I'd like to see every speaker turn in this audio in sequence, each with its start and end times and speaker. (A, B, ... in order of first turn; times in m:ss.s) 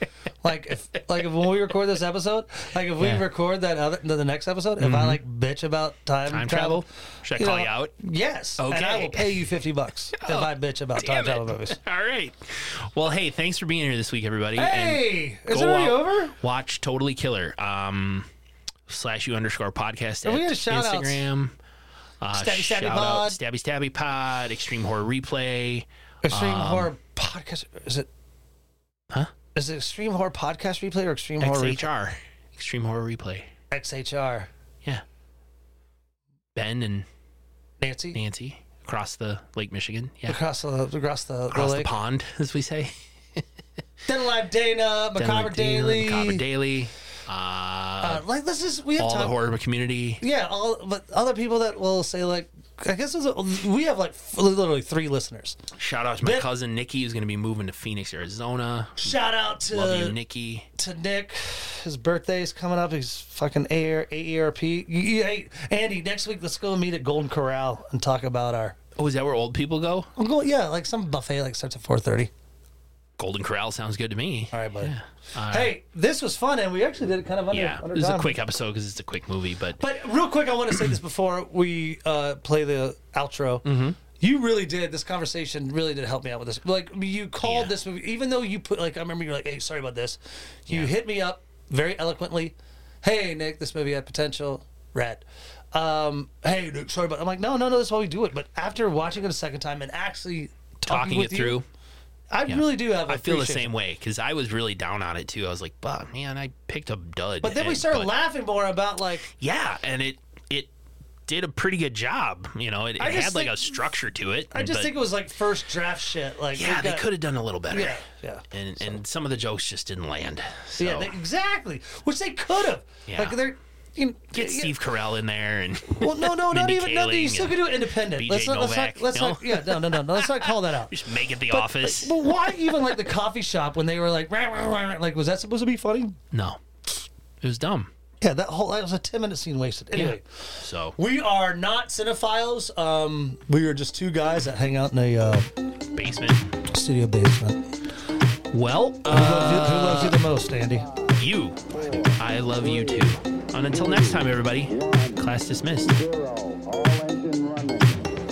0:00.4-0:11.8 A
0:03.0-0:03.2 B
0:04.8-0:05.2 B
0:06.3-0:07.9 B
0:08.6-0:09.5 B
0:10.2-0:18.3 B
0:14.5-0:16.4 A
0:18.9-0:21.6 B
0:20.2-0:21.2 A
0:22.2-0:26.9 B
0:22.3-0:23.4 A
0:26.2-0:28.1 A
0:29.5-0:31.9 A
0:31.4-0:33.5 B
0:33.7-0:34.5 A
0:36.5-0:37.0 B
0:37.8-0:38.2 A
0:38.1-0:40.4 B
0:40.3-0:41.9 A
0:41.5-0:43.4 B
0:44.1-0:46.4 A
0:45.1-0:48.2 B
0:48.0-0:49.4 A
0:49.0-0:50.2 B
0:50.2-0:55.6 A
0:55.8-0:59.2 B
0:59.0-1:00.2 A
0:59.7-1:00.7 B
1:00.8-1:08.8 A
1:09.0-1:10.1 B
1:10.2-1:12.3 A
1:13.2-1:15.7 B
1:14.5-1:14.9 A
1:15.5-1:18.3 A
1:17.5-1:19.8 B
1:19.8-1:41.6 A
1:23.6-1:24.0 B
1:27.4-1:27.7 B
1:30.7-1:30.9 B
1:40.9-1:41.6 B
1:42.3-1:43.7 A
1:42.4-1:48.1 B
1:47.4-1:49.3 A
1:49.3-1:50.7 B
1:51.2-1:54.9 B
1:53.0-1:53.8 A
1:54.5-1:57.1 A
1:56.5-2:01.2 B
1:57.7-1:58.4 A
2:00.8-2:04.7 A
2:03.1-2:03.4 B
2:04.3-2:12.2 B
2:06.0-2:16.2 A
2:16.3-2:16.6 B
2:17.4-2:17.9 B
2:18.2-2:25.5 A
2:19.9-2:21.0 B
2:25.9-2:26.5 B
2:26.7-2:27.6 A
2:28.5-2:30.2 B
2:29.1-2:30.9 A
2:30.7-2:33.2 C
2:31.2-2:35.9 B
2:33.7-2:35.3 C
2:35.8-2:38.1 C